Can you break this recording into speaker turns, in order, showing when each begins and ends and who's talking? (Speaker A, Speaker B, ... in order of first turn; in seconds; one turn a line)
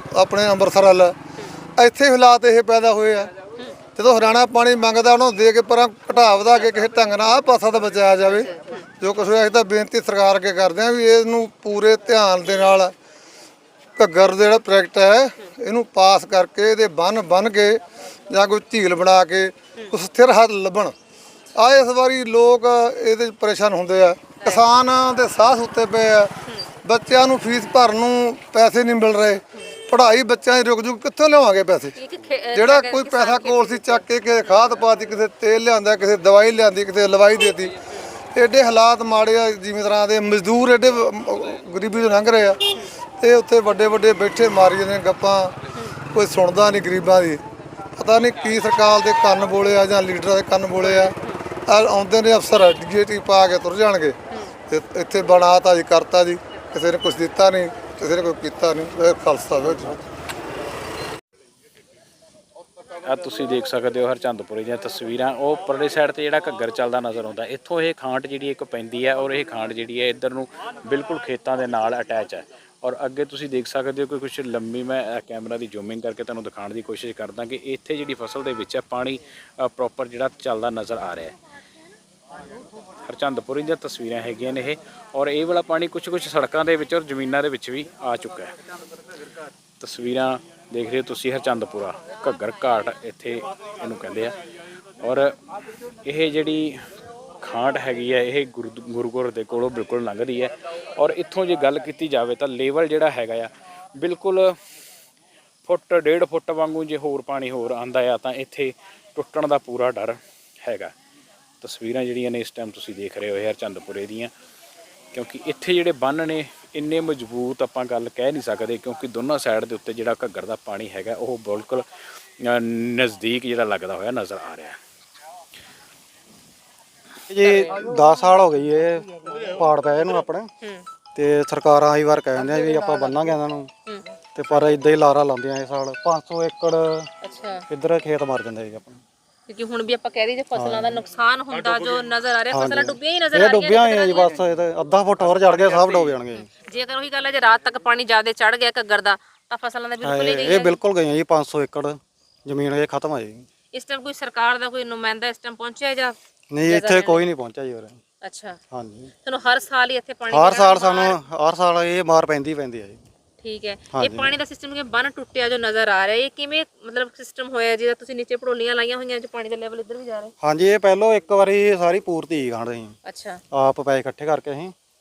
Speaker A: 0.1-1.1
Speaker A: 1.8-3.3
Speaker A: 3.9-12.9
Speaker B: 8.4-8.8
Speaker A: 14.0-20.9
Speaker A: 21.5-26.3
Speaker B: 24.4-24.7
Speaker A: 26.8-32.0
Speaker B: 31.9-34.8
Speaker A: 32.5-37.8
Speaker A: 38.3-45.5
Speaker A: 46.1-47.4
Speaker A: 48.0-51.1
Speaker B: 50.9-51.4
Speaker A: 51.7-54.2
Speaker A: 54.7-60.0
Speaker C: 63.0-81.3
Speaker C: 83.0-88.5
Speaker C: 89.8-94.3
Speaker C: 95.0-95.3
Speaker C: 96.0-96.8
Speaker C: 97.4-104.5
Speaker C: 105.7-110.9
Speaker C: 111.6-114.3
Speaker C: 115.1-121.8
Speaker C: 122.4-124.8
Speaker D: 127.3-130.5
Speaker B: 127.5-127.8
Speaker D: 131.1-133.7
Speaker B: 132.7-133.1
Speaker B: 133.9-134.2
Speaker D: 134.3-137.1
Speaker B: 137.2-137.6
Speaker D: 137.7-139.0
Speaker B: 139.5-144.3
Speaker D: 140.5-141.0
Speaker D: 142.5-146.5
Speaker B: 146.3-150.8
Speaker D: 150.0-153.4
Speaker B: 153.7-157.3
Speaker D: 156.5-158.0
Speaker B: 158.2-158.6
Speaker D: 158.7-159.1
Speaker B: 159.2-161.2
Speaker D: 160.3-163.0
Speaker B: 163.4-170.3
Speaker D: 163.9-164.4
Speaker D: 170.4-172.9
Speaker B: 173.1-173.4
Speaker D: 173.5-174.7